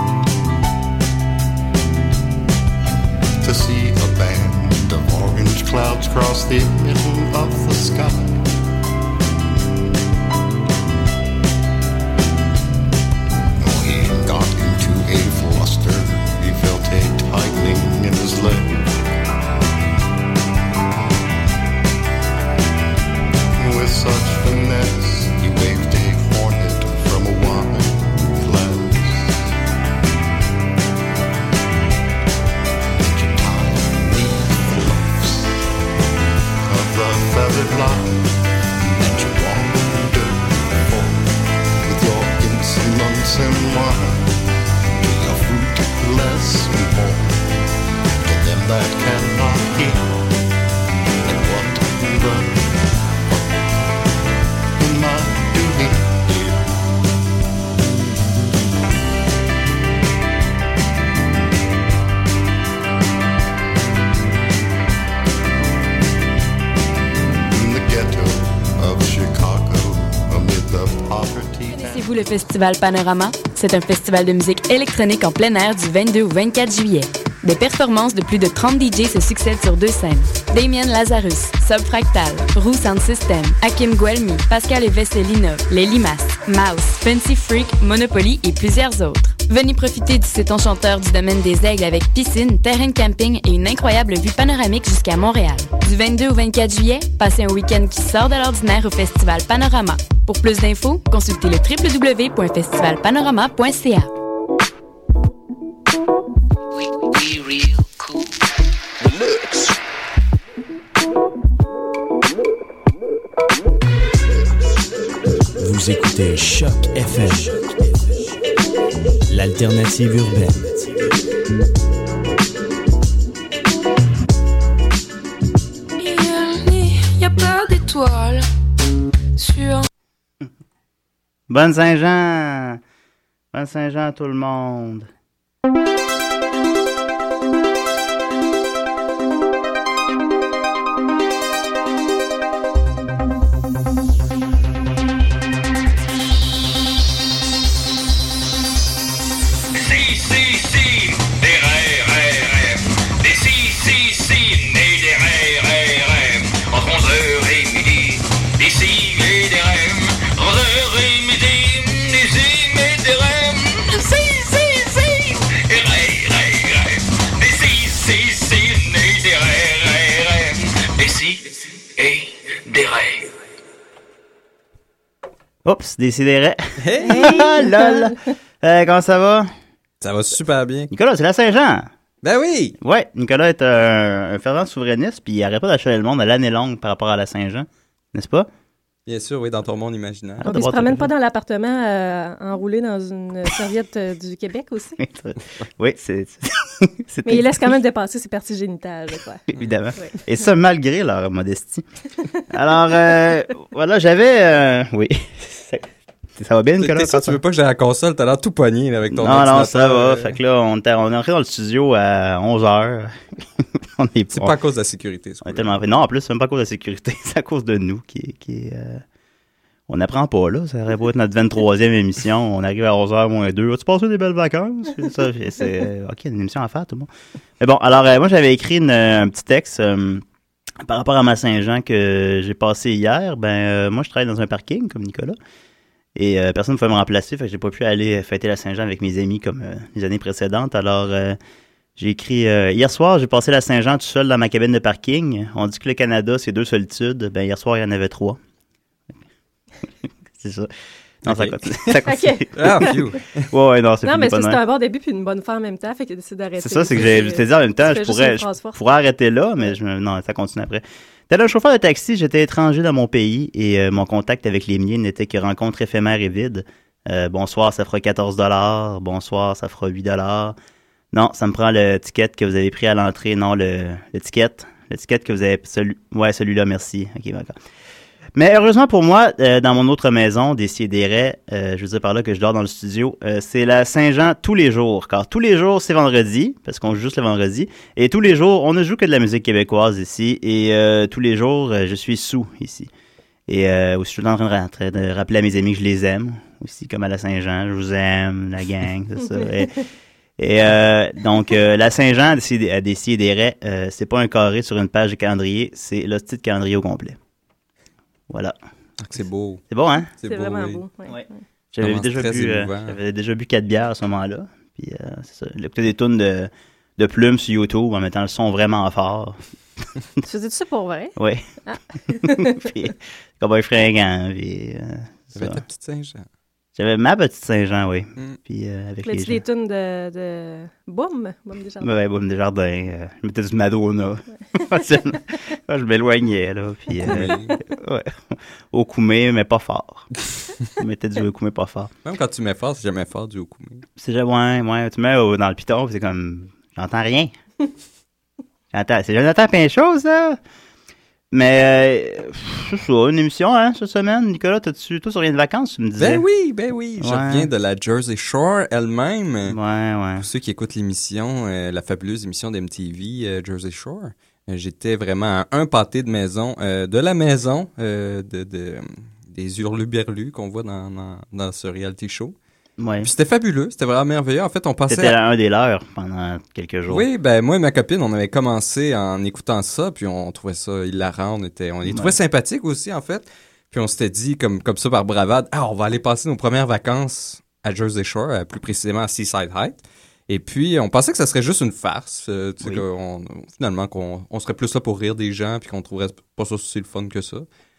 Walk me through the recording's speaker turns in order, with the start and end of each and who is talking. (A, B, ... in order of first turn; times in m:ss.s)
0:03.4-0:08.4 A
0:13.6-0:19.0 A
0:23.6-0:29.4 A
0:33.0-0:35.6 A
0:36.6-0:38.4 A
0:38.9-0:41.3 A
0:41.8-0:44.4 A
0:45.0-0:47.4 A
0:48.2-0:50.3 A
0:51.2-0:53.4 A
0:54.8-0:56.7 A
1:07.5-1:12.2 A
1:11.7-1:44.1 B
1:46.8-1:48.2 C
1:49.0-1:49.7 C
1:55.6-1:57.7 D
1:59.3-2:01.1 D
2:06.0-2:08.5 E
2:09.4-2:09.9 E
2:11.5-2:12.8 F
2:13.5-2:15.1 F
2:29.7-2:53.4 C
2:55.6-2:59.5 F
2:56.8-2:57.4 G
2:57.0-2:58.2 H
3:00.0-3:00.9 G
3:00.9-3:01.9 F
3:02.2-3:02.8 G
3:02.8-3:08.5 F
3:09.1-3:10.5 G
3:10.4-3:11.1 F
3:10.4-3:15.0 H
3:15.0-3:17.8 F
3:17.2-3:19.4 H
3:19.5-3:21.9 F
3:22.5-3:27.4 F
3:26.8-3:30.4 G
3:29.1-3:34.6 F
3:34.3-3:35.7 G
3:35.4-3:39.0 F
3:39.9-3:50.2 F
3:50.8-3:55.4 F
3:56.2-4:01.4 F
4:02.0-4:08.4 F
4:10.4-4:10.7 F
4:11.2-4:14.6 F
4:11.2-4:13.4 G
4:12.0-4:13.0 H
4:14.0-4:18.8 H
4:16.6-4:30.6 F
4:31.1-4:37.5 F
4:38.4-4:52.9 F
4:53.5-4:59.8 F
5:00.4-5:07.2 F
5:08.3-5:08.6 F
5:09.0-5:09.6 G
5:09.7-5:10.1 F
5:10.2-5:10.8 G
5:10.2-5:11.4 H
5:11.1-5:19.4 F
5:11.8-5:13.0 G
5:20.2-5:21.2 H
5:21.2-5:21.5 F
5:21.7-5:22.7 H
5:22.1-5:25.6 F
5:25.3-5:26.3 G
5:26.8-5:29.4 F
5:29.0-5:31.9 H
5:31.8-5:41.9 F
5:37.0-5:37.6 G
5:42.0-5:43.8 G
5:44.0-5:47.3 F
5:48.7-5:50.4 F
5:51.3-5:56.2 F
5:56.0-5:59.6 G
5:57.0-5:57.5 F
5:59.5-6:00.3 F
6:00.2-6:12.4 G
6:12.8-6:13.1 F
6:13.0-6:15.2 G
6:14.9-6:17.1 F
6:16.9-6:37.5 G
6:21.8-6:22.2 F